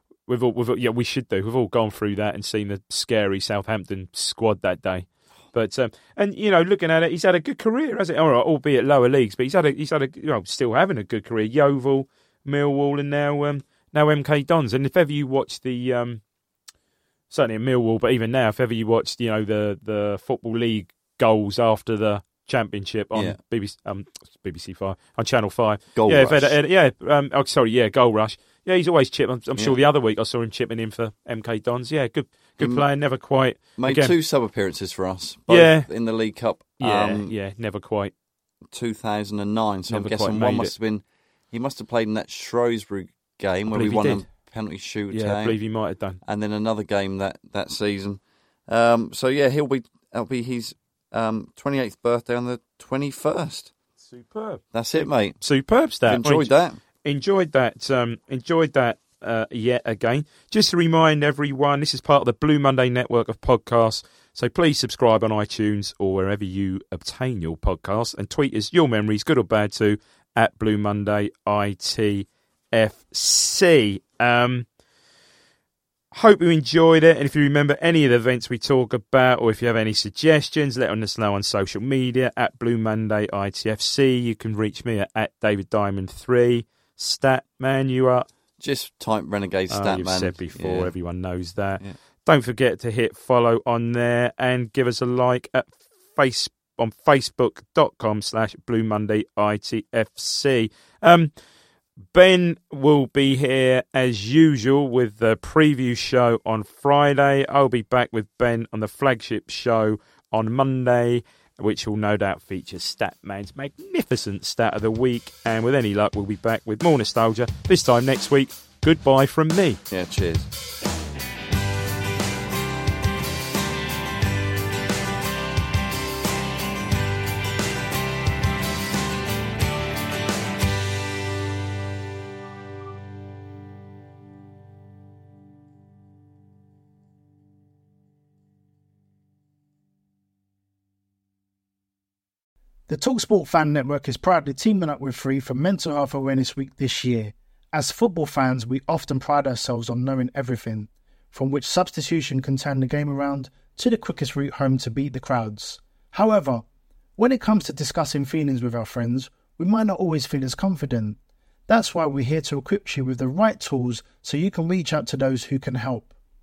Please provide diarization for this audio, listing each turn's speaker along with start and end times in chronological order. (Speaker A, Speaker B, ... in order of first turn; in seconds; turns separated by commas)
Speaker A: 0.3-16.2, Speaker A: 17.3-34.1, Speaker B: 25.9-26.6, Speaker B: 29.6-29.8, Speaker B: 32.6-32.9, Speaker B: 33.8-37.3, Speaker A: 35.5-35.9, Speaker A: 36.8-38.1, Speaker B: 38.7-45.6, Speaker A: 39.9-40.7, Speaker A: 43.7-44.2, Speaker A: 45.1-46.2, Speaker B: 46.2-53.7, Speaker A: 54.0-56.5, Speaker B: 54.7-55.4, Speaker B: 56.0-56.8, Speaker A: 57.0-74.7, Speaker A: 76.1-88.3, Speaker B: 88.6-90.9, Speaker A: 89.7-101.3, Speaker A: 102.1-119.8, Speaker B: 119.9-120.5, Speaker C: 142.9-156.6, Speaker C: 157.2-166.1